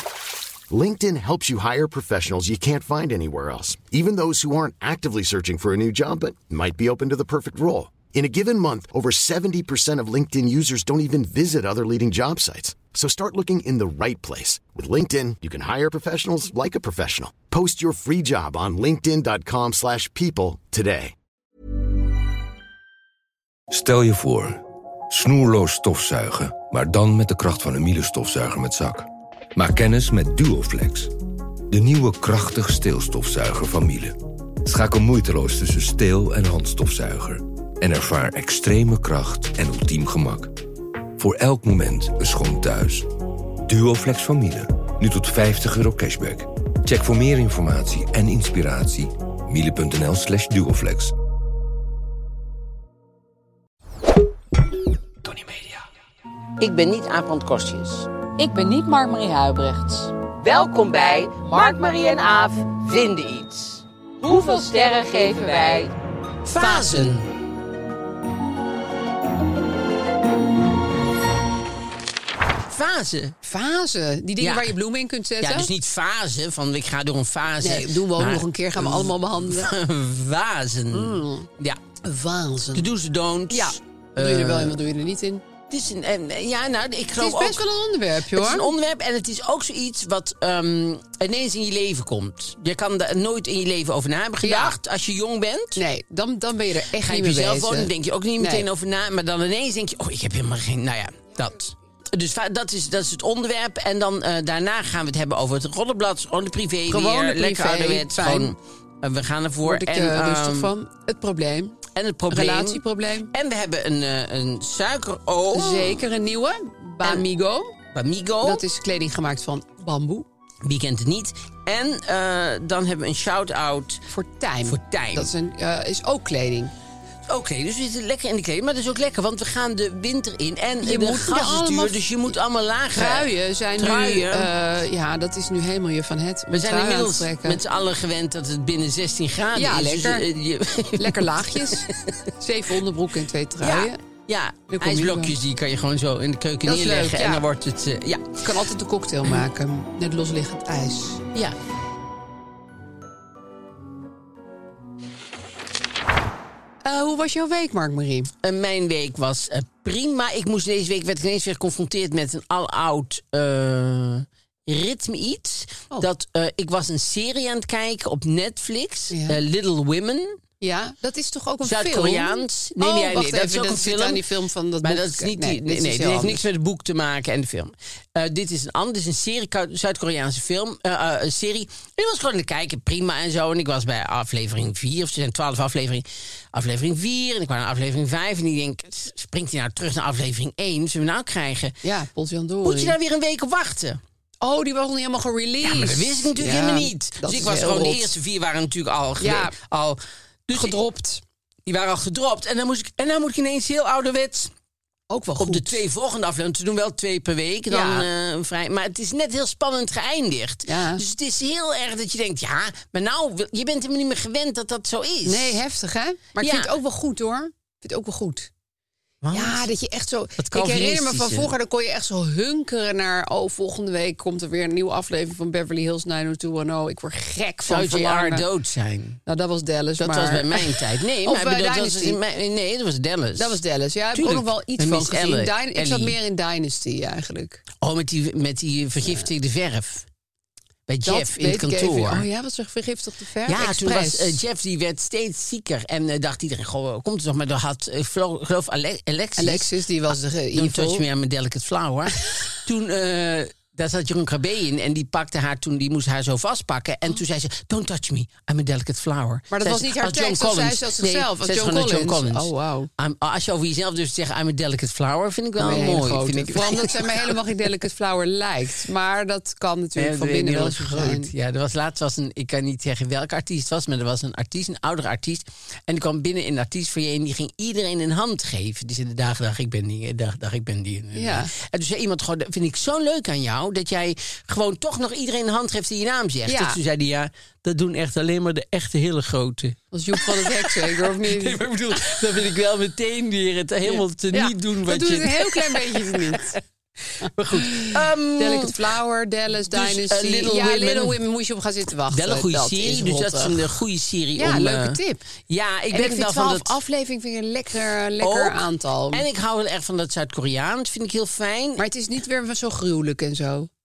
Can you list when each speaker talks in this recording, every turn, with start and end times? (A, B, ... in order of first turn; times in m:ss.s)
0:00.7-0:21.1 A
0:23.7-0:31.1 B
0:31.7-0:40.5 B
0:41.2-0:43.1 B
0:43.6-0:51.1 B
0:55.3-0:55.8 C
0:56.6-0:58.1 C
0:58.4-1:00.1 D
1:00.3-1:05.9 C
1:04.2-1:05.9 D
1:06.4-1:07.3 C
1:06.6-1:07.2 D
1:12.7-1:13.4 C
1:13.4-1:15.7 D
1:14.4-1:14.7 C
1:15.4-1:21.8 C
1:17.6-1:19.7 D
1:20.9-1:21.5 D
1:22.0-1:22.9 D
1:22.7-1:24.8 C
1:23.5-1:25.4 D
1:25.7-1:27.6 C
1:27.2-1:28.7 D
1:28.3-1:35.8 C
1:34.4-1:34.7 D
1:35.8-1:38.6 D
1:37.0-1:50.7 C
1:46.9-1:48.5 D
1:49.6-1:51.8 D
1:51.9-1:56.0 C
1:52.3-1:53.3 D
1:55.5-1:57.7 D
1:57.9-1:58.6 C
1:58.4-2:00.3 D
2:00.6-2:04.0 C
2:04.1-2:06.7 D
2:04.6-2:05.3 C
2:07.3-2:13.3 C
2:10.8-2:12.3 D
2:12.9-2:17.6 D
2:13.8-2:14.5 C
2:16.5-2:22.3 C
2:19.5-2:20.2 D
2:21.0-2:21.8 D
2:22.4-2:24.0 D
2:23.6-2:28.4 C
2:24.7-2:25.3 D
2:26.6-2:27.4 D
2:28.4-2:31.2 D
2:36.8-2:38.3 D
2:38.4-2:50.4 C
2:49.1-2:49.4 D
2:50.6-2:56.4 D
2:51.6-2:54.2 C
2:54.8-3:11.7 C
3:11.8-3:13.0 D
3:12.6-3:14.0 C
3:14.4-3:18.1 D
3:15.6-3:20.8 C
3:19.2-3:19.5 D
3:20.5-3:21.2 D
3:21.6-3:24.5 C
3:25.1-3:25.8 D
3:25.4-3:35.6 C
3:27.7-3:28.0 D
3:30.6-3:31.0 D
3:35.2-3:38.5 D
3:36.4-3:36.7 C
3:39.2-3:39.6 C
3:39.3-3:48.4 D
3:40.4-3:41.5 C
3:47.7-3:49.2 C
3:49.2-3:52.2 D
3:50.0-3:53.6 C
3:53.4-3:57.6 D
3:54.1-3:56.2 C
3:57.8-4:00.0 C
4:00.9-4:02.2 C
4:01.0-4:04.4 D
4:03.5-4:09.7 C
4:09.4-4:11.0 D
4:10.5-4:27.3 C
4:19.5-4:22.9 D
4:25.6-4:31.3 D
4:30.0-4:56.6 C
4:41.1-4:41.5 D
4:46.4-4:46.8 D
4:49.9-4:52.2 D
4:53.9-4:56.6 D
4:57.1-4:58.8 C
4:57.2-5:03.7 D
4:59.7-5:01.2 C
5:02.1-5:06.7 C
5:04.4-5:05.2 D
5:05.9-5:09.2 D
5:08.2-5:11.8 C
5:11.8-5:13.7 D